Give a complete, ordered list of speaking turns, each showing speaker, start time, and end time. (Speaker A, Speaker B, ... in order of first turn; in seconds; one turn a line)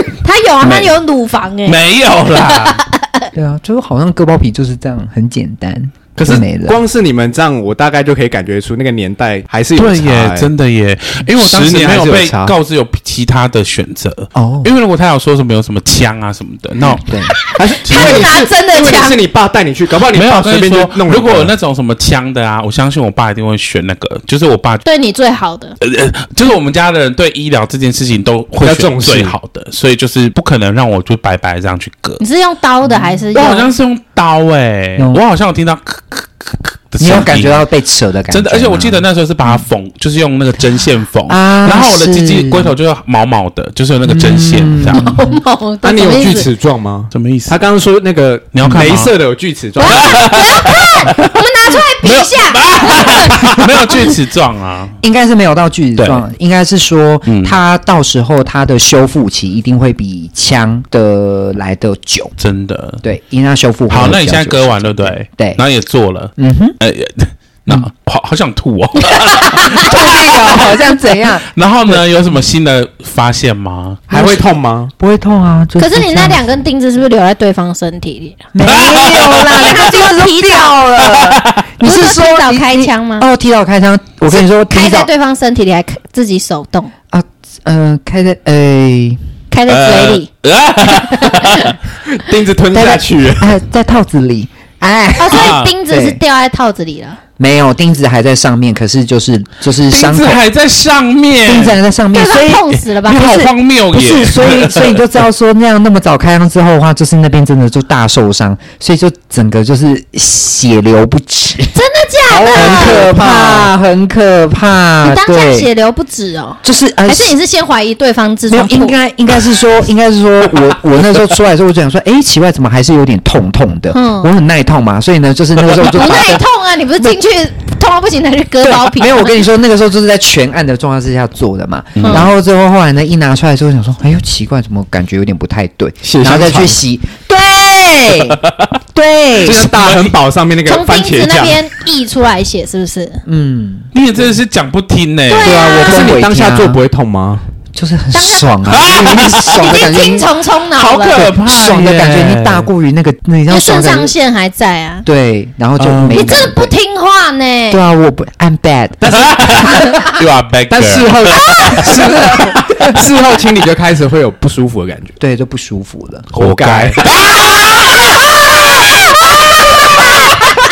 Speaker A: 0.2-1.8
Speaker B: 0.6-0.9
Speaker C: 1.7-2.8
Speaker A: 2.5-3.2
Speaker B: 3.3-6.8
Speaker D: 6.2-10.5
Speaker C: 9.8-17.1
Speaker D: 11.3-12.6
Speaker B: 14.3-14.7
Speaker B: 17.0-17.3
Speaker D: 17.6-21.5
Speaker A: 17.8-19.2
Speaker C: 17.9-18.3
Speaker C: 20.1-24.8
Speaker A: 24.9-25.8
Speaker C: 25.8-32.2
Speaker D: 28.6-29.4
Speaker A: 32.2-33.7
Speaker B: 32.9-33.2
Speaker C: 33.3-37.6
Speaker B: 37.0-39.6
Speaker C: 38.3-45.1
Speaker B: 41.3-42.8
Speaker B: 44.0-45.4
Speaker A: 45.0-46.5
Speaker D: 45.8-50.5
Speaker C: 47.1-47.6
Speaker C: 48.5-49.1
Speaker A: 49.8-53.5
Speaker C: 49.8-51.2
Speaker C: 52.0-55.0
Speaker B: 55.0-62.3
Speaker C: 56.0-56.2
Speaker C: 57.3-57.6
Speaker C: 62.4-63.0
Speaker B: 63.0-65.6
Speaker C: 63.9-70.7
Speaker B: 66.4-66.8
Speaker A: 69.1-69.9
Speaker B: 69.7-72.0
Speaker C: 71.5-74.0
Speaker D: 74.1-74.9
Speaker B: 74.1-74.4
Speaker B: 75.0-76.4
Speaker A: 75.8-78.5
Speaker B: 78.5-85.1
Speaker C: 78.6-79.5
Speaker A: 79.1-80.8
Speaker C: 81.1-81.6
Speaker A: 81.8-83.3
Speaker A: 84.3-86.9
Speaker B: 87.1-89.2
Speaker A: 89.5-90.3
Speaker C: 89.7-91.8
Speaker A: 90.9-91.7
Speaker D: 92.1-93.5
Speaker B: 92.7-96.2
Speaker A: 95.2-97.2
Speaker C: 95.3-95.7
Speaker B: 97.4-100.4
Speaker C: 99.9-101.8
Speaker B: 101.5-111.8
Speaker A: 102.1-103.5
Speaker C: 103.1-105.0
Speaker A: 111.7-113.2
Speaker D: 112.3-113.7
Speaker B: 112.5-115.7
Speaker A: 115.0-119.0
Speaker B: 116.6-117.4
Speaker B: 118.5-126.4
Speaker A: 123.9-124.3
Speaker A: 125.8-129.4
Speaker B: 128.6-138.4
Speaker C: 131.9-132.3
Speaker D: 136.0-136.8
Speaker B: 138.9-139.7
Speaker D: 139.4-141.6
Speaker C: 139.6-140.2
Speaker A: 140.7-143.2
Speaker B: 143.3-143.9
Speaker C: 143.9-145.6
Speaker A: 145.3-146.2
Speaker B: 145.4-146.8
Speaker D: 145.7-147.4
Speaker B: 147.8-150.3
Speaker A: 148.1-148.5
Speaker C: 148.7-149.6
Speaker A: 149.3-151.3
Speaker C: 150.8-152.7
Speaker B: 151.1-154.1
Speaker A: 153.5-155.1
Speaker B: 155.1-156.7
Speaker D: 155.8-156.3
Speaker A: 156.1-157.8
Speaker B: 157.7-159.1
Speaker D: 159.0-160.0
Speaker C: 159.3-161.9
Speaker A: 159.7-160.0
Speaker D: 160.7-165.1
Speaker A: 161.5-161.8
Speaker B: 161.8-162.9
Speaker B: 165.2-166.3
Speaker C: 166.3-170.3
Speaker D: 166.3-167.1